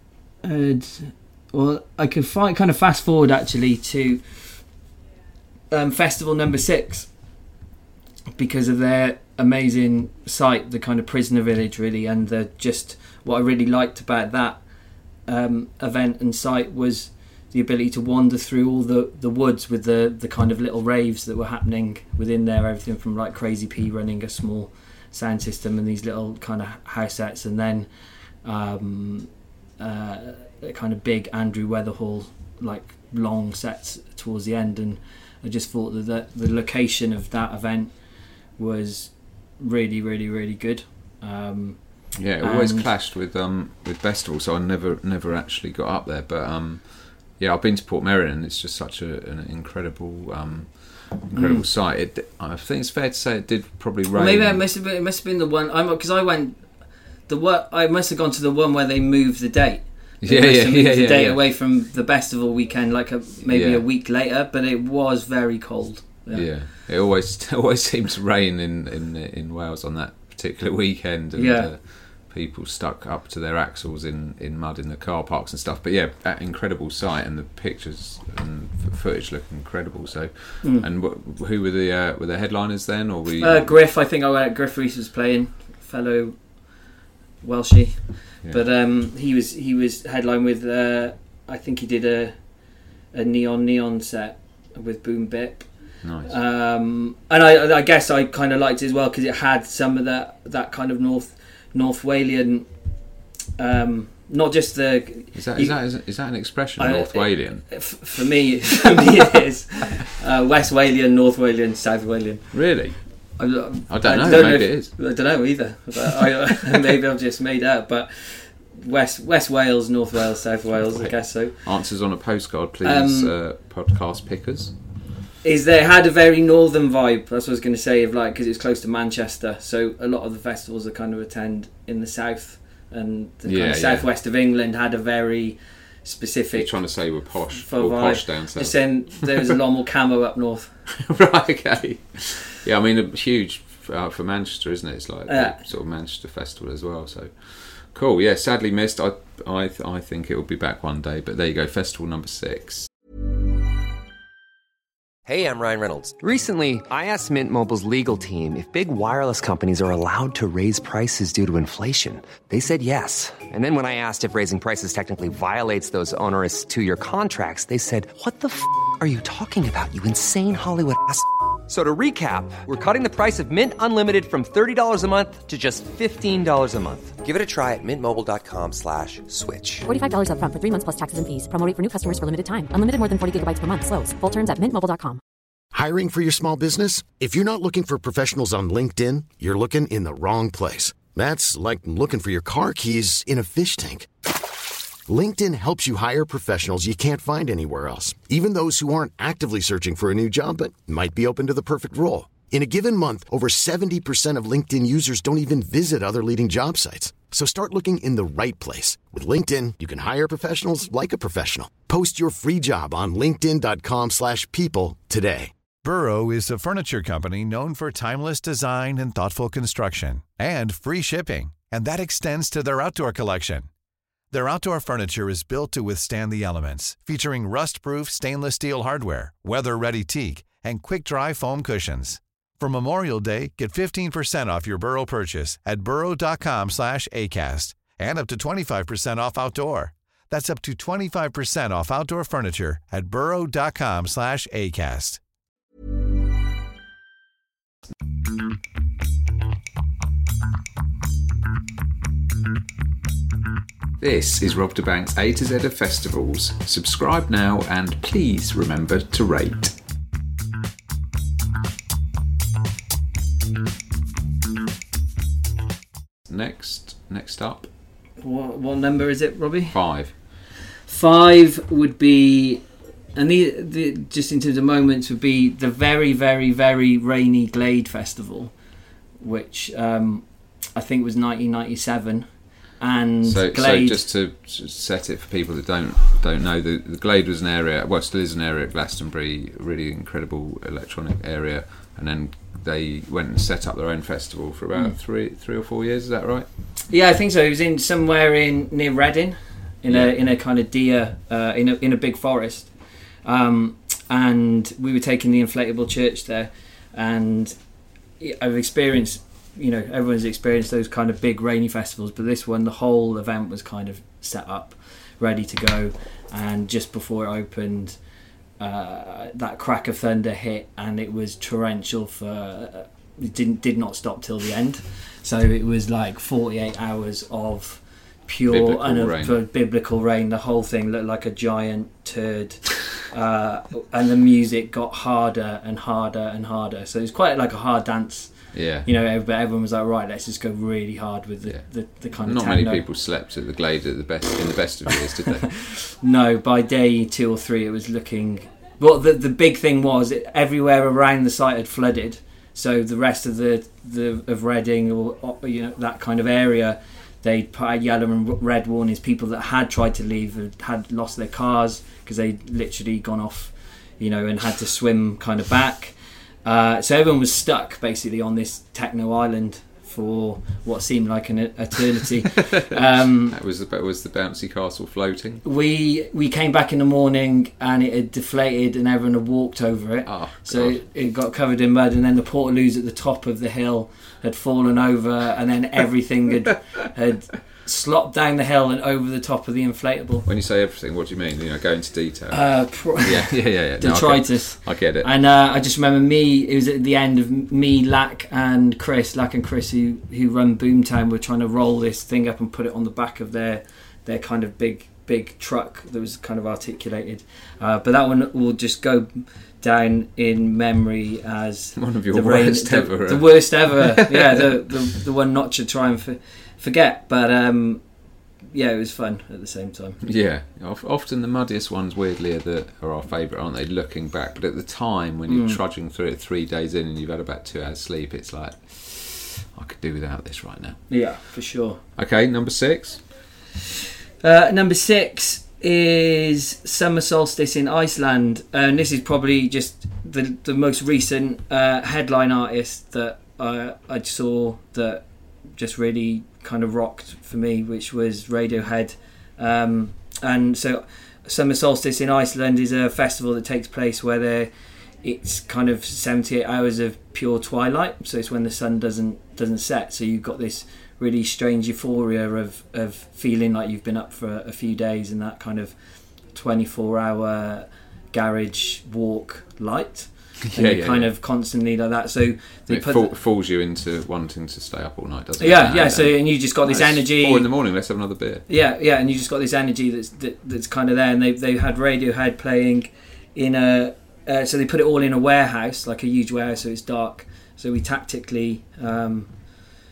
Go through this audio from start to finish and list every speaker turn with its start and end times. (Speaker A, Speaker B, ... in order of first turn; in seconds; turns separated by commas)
Speaker A: 0.4-4.7, Speaker A: 5.7-7.3, Speaker A: 8.3-27.9, Speaker A: 28.4-42.9, Speaker B: 42.1-54.6, Speaker A: 51.3-51.6, Speaker A: 54.1-66.5, Speaker B: 60.2-61.4, Speaker B: 63.5-63.8, Speaker B: 66.3-83.8, Speaker A: 71.3-71.7, Speaker A: 80.6-80.9, Speaker A: 83.4-103.0, Speaker B: 96.0-96.3, Speaker A: 103.6-105.8, Speaker B: 105.3-107.9, Speaker A: 106.8-121.6, Speaker B: 112.5-114.9, Speaker B: 120.9-124.8, Speaker A: 122.8-123.3, Speaker A: 125.4-140.8, Speaker B: 133.4-134.1, Speaker B: 136.5-139.4, Speaker B: 140.9-152.9, Speaker A: 145.3-145.6, Speaker C: 155.2-179.9, Speaker D: 179.9-185.2, Speaker E: 185.7-194.1, Speaker E: 195.1-215.5, Speaker F: 215.8-223.7, Speaker F: 224.3-245.2, Speaker B: 254.0-259.7, Speaker B: 266.3-267.7, Speaker A: 268.2-270.2, Speaker B: 269.7-270.2, Speaker A: 270.9-278.5, Speaker A: 279.2-284.0, Speaker B: 283.2-296.5, Speaker A: 296.9-307.6, Speaker B: 299.9-300.1, Speaker A: 308.2-318.0, Speaker A: 318.6-342.8, Speaker B: 328.5-329.4, Speaker B: 338.5-338.9, Speaker B: 341.4-345.6, Speaker A: 345.6-373.4, Speaker B: 373.3-375.4, Speaker A: 375.4-390.2, Speaker B: 380.1-380.8, Speaker B: 390.2-395.1, Speaker A: 392.3-417.8, Speaker B: 411.8-414.4, Speaker A: 418.5-420.0, Speaker B: 420.0-431.0, Speaker A: 425.3-425.6, Speaker A: 430.9-431.8, Speaker B: 432.0-433.1, Speaker A: 434.2-473.1, Speaker B: 470.5-471.1, Speaker B: 472.7-478.4, Speaker A: 475.4-477.5, Speaker A: 478.5-489.3